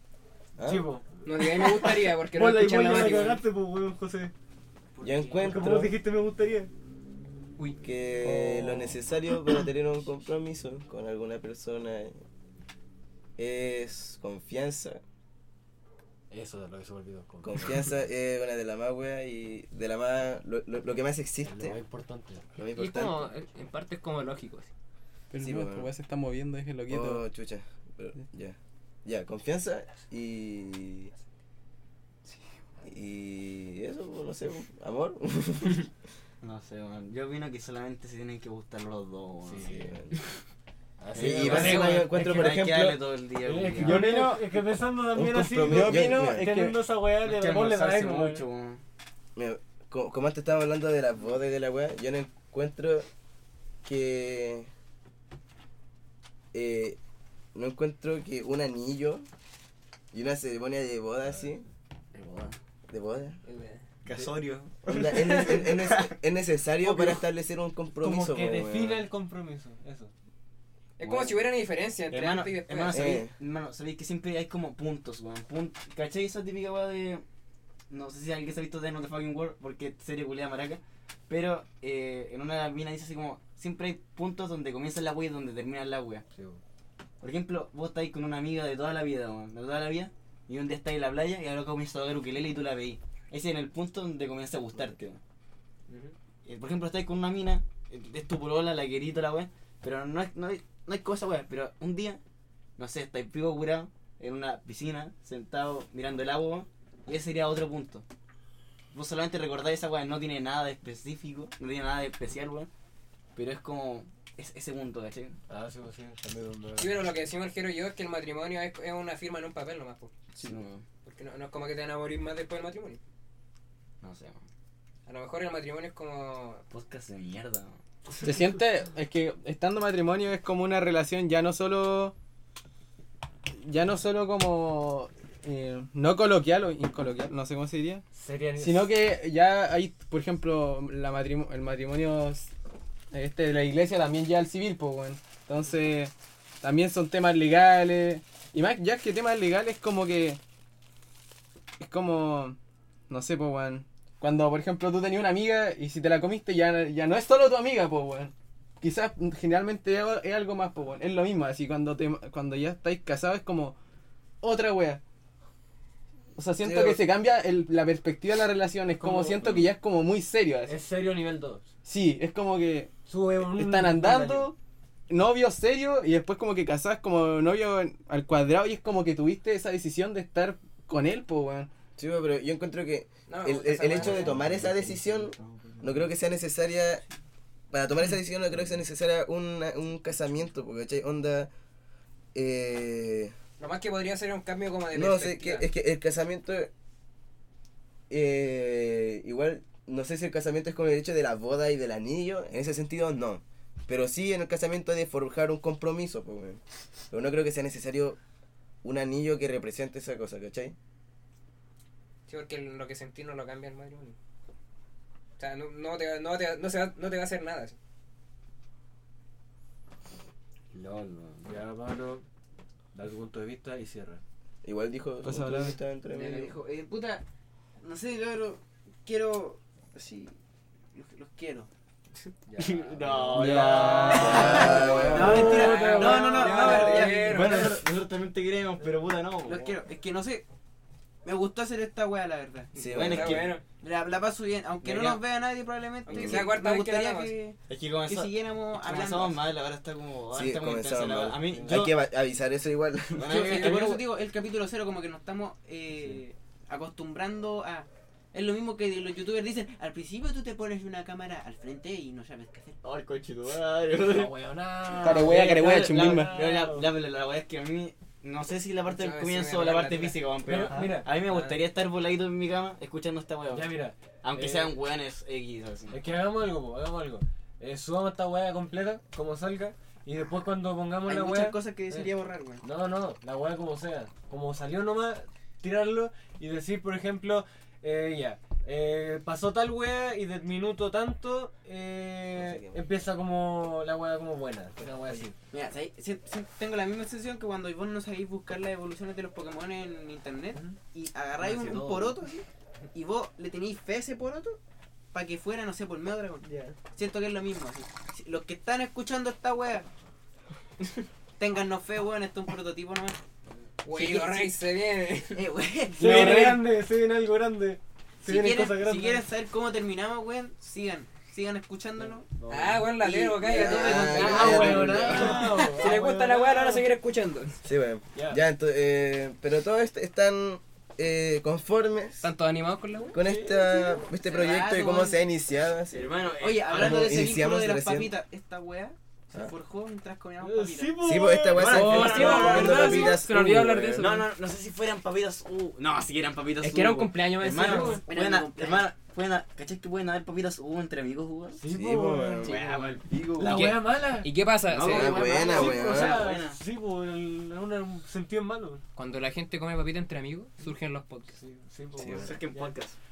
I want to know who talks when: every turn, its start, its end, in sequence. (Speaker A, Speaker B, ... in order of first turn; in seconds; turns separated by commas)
Speaker A: 0.6-0.9, Speaker B: 0.6-4.3, Speaker C: 1.2-3.4, Speaker A: 2.9-3.4, Speaker D: 5.0-5.4, Speaker A: 5.0-6.0, Speaker B: 5.4-6.7, Speaker A: 7.8-12.2, Speaker A: 13.4-15.0, Speaker B: 16.3-17.9, Speaker A: 17.4-21.8, Speaker B: 21.4-22.4, Speaker A: 22.6-23.3, Speaker C: 22.7-24.7, Speaker E: 25.3-27.3, Speaker A: 25.4-25.9, Speaker A: 26.9-31.1, Speaker A: 32.8-35.9, Speaker F: 36.4-39.8, Speaker B: 39.4-40.0, Speaker A: 39.7-40.1, Speaker B: 41.0-42.7, Speaker A: 41.1-43.0, Speaker F: 41.1-44.1, Speaker C: 41.5-42.0, Speaker B: 43.4-48.4, Speaker E: 43.8-44.4, Speaker A: 45.1-46.5, Speaker E: 45.6-46.8, Speaker F: 47.2-48.8, Speaker A: 49.4-53.1, Speaker A: 53.9-54.7, Speaker A: 56.5-57.0, Speaker A: 57.5-59.3, Speaker A: 60.1-61.6, Speaker F: 62.1-62.6, Speaker A: 62.9-63.4, Speaker C: 63.4-63.9, Speaker F: 64.0-66.1, Speaker A: 64.8-69.1, Speaker B: 66.8-67.2, Speaker B: 68.0-70.1, Speaker C: 71.0-73.1, Speaker F: 71.0-71.4, Speaker F: 72.1-77.2, Speaker A: 72.9-73.3, Speaker F: 77.9-86.2, Speaker B: 86.3-86.6, Speaker F: 87.2-95.2, Speaker B: 95.9-96.1, Speaker F: 96.4-102.2, Speaker F: 102.8-108.0, Speaker F: 108.9-112.7, Speaker F: 113.3-115.4, Speaker B: 115.5-117.0, Speaker C: 116.8-120.1, Speaker F: 120.4-120.8, Speaker C: 121.0-123.0, Speaker F: 124.0-124.4, Speaker C: 125.1-126.6, Speaker F: 126.7-127.8, Speaker E: 128.2-132.1, Speaker E: 133.6-138.1, Speaker B: 138.1-138.9, Speaker E: 138.6-142.5, Speaker E: 143.1-150.4, Speaker E: 151.8-152.6, Speaker E: 153.1-163.8, Speaker E: 164.4-165.0, Speaker E: 166.3-170.8, Speaker A: 166.6-167.0, Speaker B: 168.9-169.7, Speaker B: 170.6-171.7, Speaker E: 171.8-174.5, Speaker B: 173.1-174.5, Speaker E: 175.1-181.7, Speaker A: 182.0-187.0, Speaker C: 183.3-184.3, Speaker F: 183.9-186.1, Speaker A: 187.7-191.5, Speaker A: 192.3-193.3, Speaker C: 193.6-195.7, Speaker A: 194.9-196.7, Speaker A: 198.1-208.2, Speaker A: 208.8-210.7, Speaker C: 212.3-214.2, Speaker C: 215.4-217.8, Speaker F: 220.7-221.5, Speaker B: 221.4-222.2, Speaker B: 222.9-224.2, Speaker A: 224.6-226.6, Speaker E: 225.2-225.8, Speaker D: 226.1-227.2, Speaker D: 227.8-230.4, Speaker D: 230.9-231.7, Speaker B: 232.5-237.7, Speaker F: 232.6-235.4, Speaker E: 233.3-235.4, Speaker D: 234.2-237.8, Speaker A: 234.2-235.5, Speaker C: 235.4-237.8, Speaker F: 236.5-239.7, Speaker D: 239.4-240.4, Speaker D: 241.2-242.7, Speaker A: 242.8-243.5, Speaker C: 242.8-243.6, Speaker F: 242.9-243.5, Speaker D: 243.8-249.4, Speaker F: 244.8-245.2, Speaker C: 246.1-247.3, Speaker A: 246.1-246.5, Speaker F: 247.7-251.9, Speaker A: 250.3-253.4, Speaker F: 253.1-254.0, Speaker D: 253.3-262.8, Speaker C: 253.3-254.0, Speaker F: 262.8-264.3, Speaker B: 264.0-266.9, Speaker E: 265.0-266.4, Speaker F: 265.0-273.7, Speaker C: 268.9-270.2, Speaker B: 270.4-271.5, Speaker B: 273.5-274.8, Speaker F: 274.2-276.0, Speaker B: 275.9-282.1, Speaker D: 281.1-282.6, Speaker B: 282.6-295.4, Speaker A: 292.3-292.8, Speaker D: 295.5-304.6, Speaker F: 301.4-302.1, Speaker D: 305.1-309.9, Speaker B: 306.5-306.7, Speaker D: 311.4-313.2, Speaker C: 313.8-315.5, Speaker D: 313.9-314.5, Speaker D: 315.3-316.6, Speaker B: 316.0-319.2, Speaker E: 316.0-316.6, Speaker D: 318.2-322.3, Speaker B: 322.0-322.9, Speaker C: 322.5-327.6, Speaker D: 323.0-325.4, Speaker A: 323.4-325.5, Speaker B: 324.1-326.9, Speaker A: 327.6-332.3, Speaker B: 328.1-328.4, Speaker C: 332.2-333.1, Speaker A: 333.1-336.1, Speaker B: 333.1-334.0, Speaker D: 334.2-335.2, Speaker F: 335.9-337.2, Speaker D: 336.4-341.1, Speaker A: 336.7-338.1, Speaker B: 340.4-343.1, Speaker A: 341.0-344.1, Speaker F: 341.6-343.1, Speaker C: 341.6-344.3, Speaker F: 344.0-351.6, Speaker C: 346.6-348.0, Speaker B: 347.5-348.0, Speaker D: 348.0-348.9, Speaker B: 351.6-352.8, Speaker A: 351.7-352.6, Speaker C: 352.4-355.5, Speaker F: 352.4-353.7, Speaker B: 353.4-354.3, Speaker F: 354.7-356.6, Speaker A: 354.9-356.3, Speaker B: 355.1-358.8, Speaker C: 358.9-361.4, Speaker B: 361.3-362.8, Speaker A: 362.0-362.3, Speaker F: 362.1-363.0